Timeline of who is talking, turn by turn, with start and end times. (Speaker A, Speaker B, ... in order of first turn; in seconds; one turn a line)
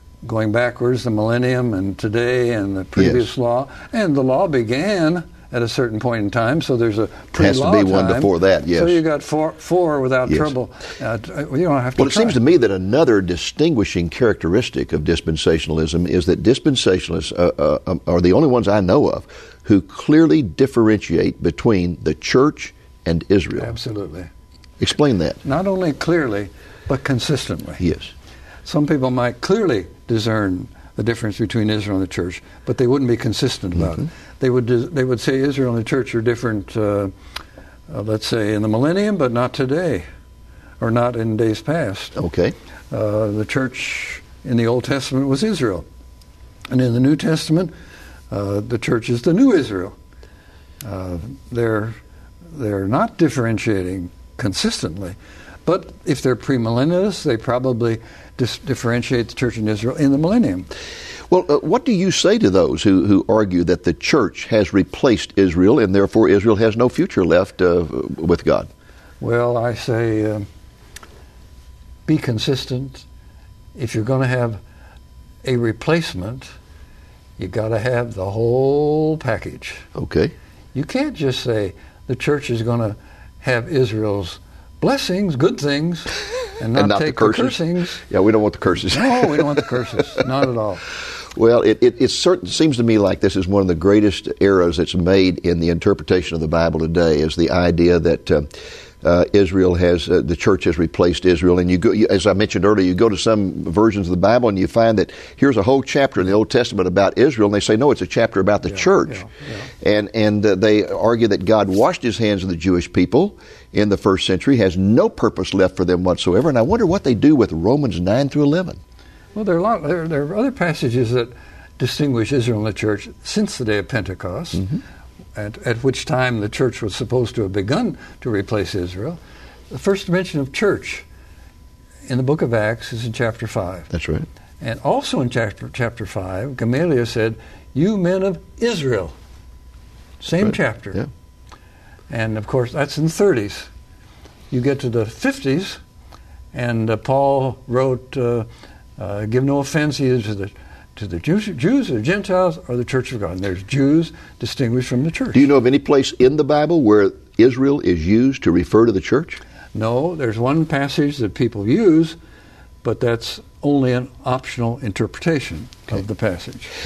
Speaker A: 0.2-12.4
Speaker B: 3.0-3.3
Speaker B: 7.4-9.0
Speaker B: 12.0-23.7
Speaker A: 23.6-24.3
Speaker B: 24.8-25.4
Speaker A: 25.4-27.8
Speaker B: 27.8-28.1
Speaker A: 28.7-37.1
Speaker A: 37.9-40.1
Speaker A: 40.8-42.2
Speaker B: 42.2-42.5
Speaker A: 42.9-45.9
Speaker A: 46.7-47.7
Speaker A: 48.3-50.0
Speaker A: 50.8-52.0
Speaker A: 52.5-60.7
Speaker B: 61.3-68.7
Speaker A: 69.2-70.5
Speaker A: 72.1-73.1
Speaker A: 73.8-74.6
Speaker A: 75.4-76.5
Speaker A: 77.4-79.9
Speaker B: 80.0-80.3
Speaker A: 80.7-88.0
Speaker B: 86.7-87.6
Speaker B: 88.1-89.7
Speaker A: 88.9-90.8
Speaker B: 91.4-98.5
Speaker B: 99.0-109.3
Speaker A: 108.7-109.7
Speaker B: 109.8-118.8
Speaker A: 119.3-124.7
Speaker A: 125.3-129.2
Speaker A: 129.7-131.1
Speaker A: 132.1-133.9
Speaker B: 133.9-134.3
Speaker A: 134.6-139.1
Speaker A: 140.2-141.0
Speaker A: 142.1-143.7
Speaker A: 144.5-145.8
Speaker A: 146.5-155.5
Speaker B: 155.3-159.4
Speaker A: 159.7-162.2
Speaker A: 162.8-166.7